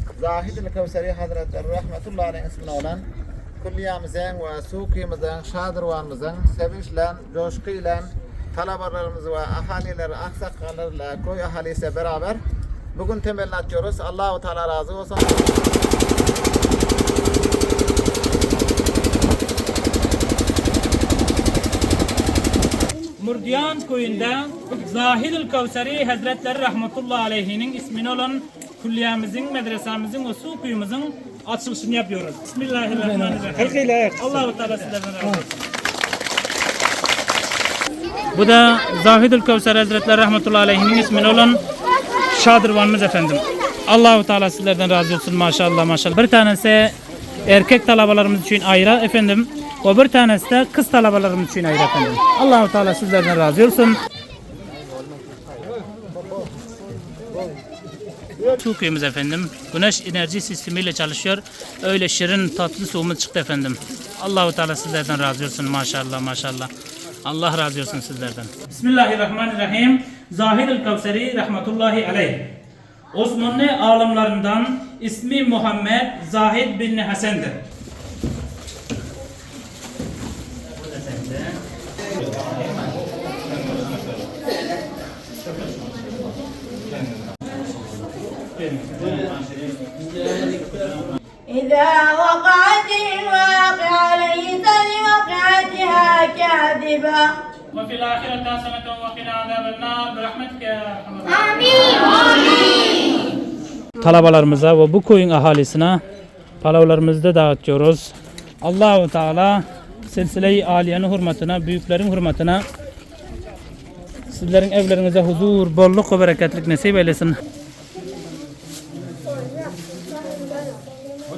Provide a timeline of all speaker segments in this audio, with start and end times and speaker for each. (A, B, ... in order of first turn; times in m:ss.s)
0:00.1-0:03.0 A
0:03.6-0:12.4 A
0:12.9-0:15.5 A
0:23.2-0:35.6 B
0:38.3-0:41.6 B
0:42.3-0:54.0 B
0:58.4-1:06.7 B
1:07.2-1:12.5 B
1:13.1-1:17.6 B
1:20.8-1:21.5 B
1:28.6-1:29.3 B
1:31.5-1:37.4 C
1:37.7-1:42.0 B
1:41.5-1:43.1 C
1:44.0-1:46.0 B
1:46.6-1:52.6 B
1:54.3-1:57.4 B